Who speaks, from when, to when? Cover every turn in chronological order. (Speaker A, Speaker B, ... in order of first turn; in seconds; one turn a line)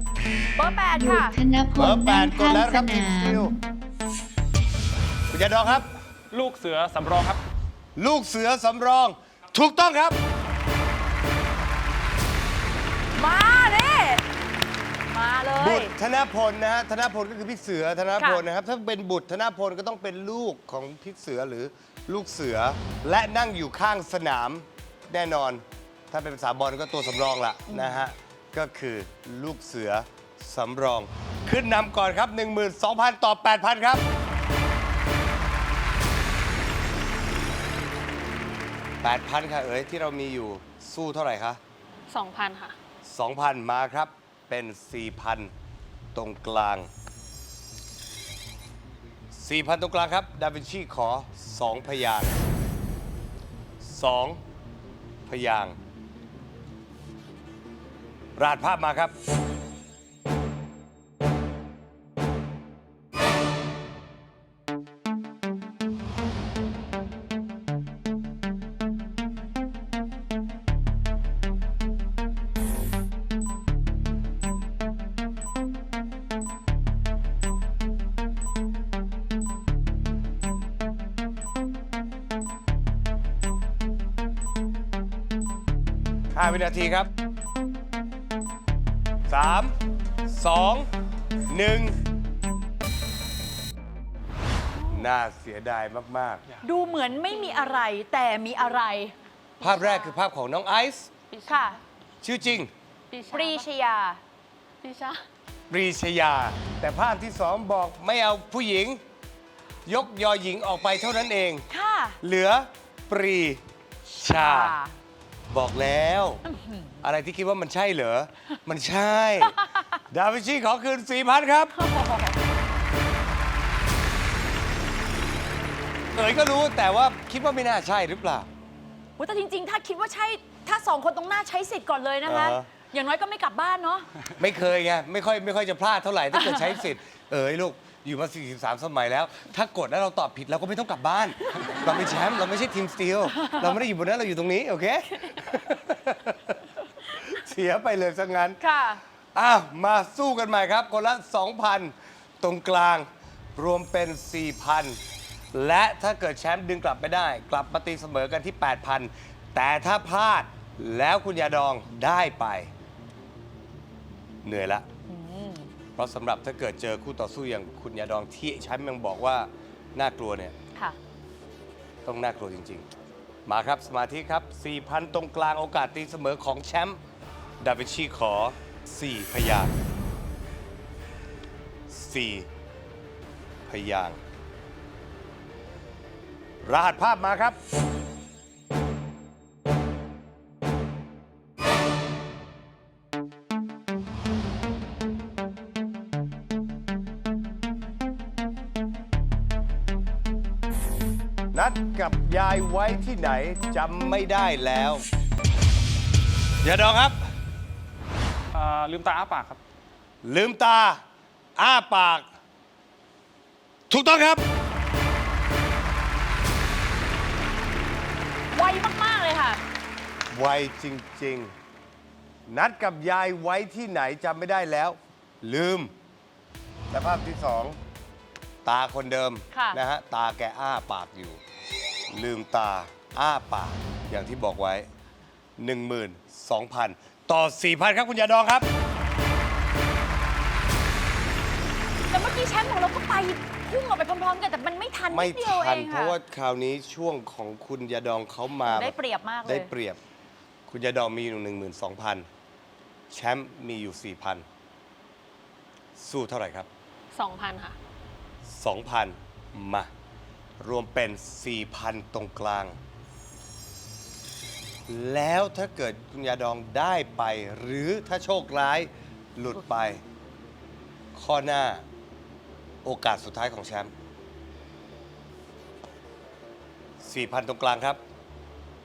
Speaker A: 0.6-1.3
Speaker B: 0.9-3.6
Speaker C: 1.7-3.5
Speaker C: 5.3-5.9
Speaker D: 6.3-7.4
Speaker C: 8.0-10.2
Speaker A: 13.1-14.2
Speaker A: 15.1-15.9
Speaker C: 15.6-34.0
Speaker A: 18.2-18.4
Speaker A: 27.7-28.0
Speaker C: 39.0-41.6
Speaker E: 42.1-42.8
Speaker C: 43.0-45.5
Speaker C: 46.1-46.9
Speaker C: 49.3-52.4
Speaker C: 53.8-54.4
Speaker C: 55.2-55.8
Speaker C: 58.4-59.1
Speaker C: 86.3-87.1
Speaker C: 89.3-89.7
Speaker C: 90.3-90.9
Speaker C: 91.5-91.9
Speaker C: 94.9-96.4
Speaker A: 96.6-99.8
Speaker C: 99.6-101.1
Speaker E: 101.3-101.8
Speaker A: 101.5-101.8
Speaker C: 102.2-102.7
Speaker E: 103.1-103.7
Speaker A: 103.3-104.2
Speaker E: 104.8-105.2
Speaker C: 105.7-109.0
Speaker C: 109.8-111.7
Speaker A: 111.7-112.2
Speaker C: 112.2-114.8
Speaker A: 114.2-115.0
Speaker C: 115.5-116.4
Speaker A: 116.5-116.9
Speaker C: 117.0-119.6
Speaker C: 120.1-121.7
Speaker A: 121.8-122.3
Speaker C: 126.1-128.5
Speaker A: 129.2-134.1
Speaker C: 132.2-132.7
Speaker C: 134.4-148.6
Speaker A: 148.6-149.0
Speaker C: 149.3-155.0
Speaker C: 155.5-162.7
Speaker C: 164.4-164.8
Speaker A: 165.1-165.7
Speaker C: 165.9-170.5
Speaker C: 172.0-172.9
Speaker C: 173.4-177.0
Speaker C: 177.6-179.8
Speaker C: 181.9-182.5
Speaker C: 183.7-184.2
Speaker C: 186.6-187.6
Speaker C: 201.5-205.0
Speaker C: 206.6-207.2
Speaker D: 208.5-209.6
Speaker C: 210.2-211.0
Speaker C: 211.6-212.2
Speaker C: 213.9-214.4
Speaker A: 218.5-219.6
Speaker C: 220.3-221.5
Speaker C: 222.5-225.9
Speaker C: 226.9-227.8
Speaker C: 228.6-231.4
Speaker A: 229.5-229.8
Speaker C: 232.1-234.9
Speaker C: 235.6-238.7
Speaker A: 242.1-246.2
Speaker C: 245.1-250.0
Speaker A: 248.6-249.7
Speaker C: 250.7-252.3
Speaker C: 253.1-254.4
Speaker C: 255.9-256.7
Speaker E: 257.1-257.8
Speaker C: 258.5-259.9
Speaker C: 260.6-262.8
Speaker C: 264.9-270.0
Speaker C: 271.1-271.8
Speaker C: 272.8-273.9
Speaker C: 277.0-278.0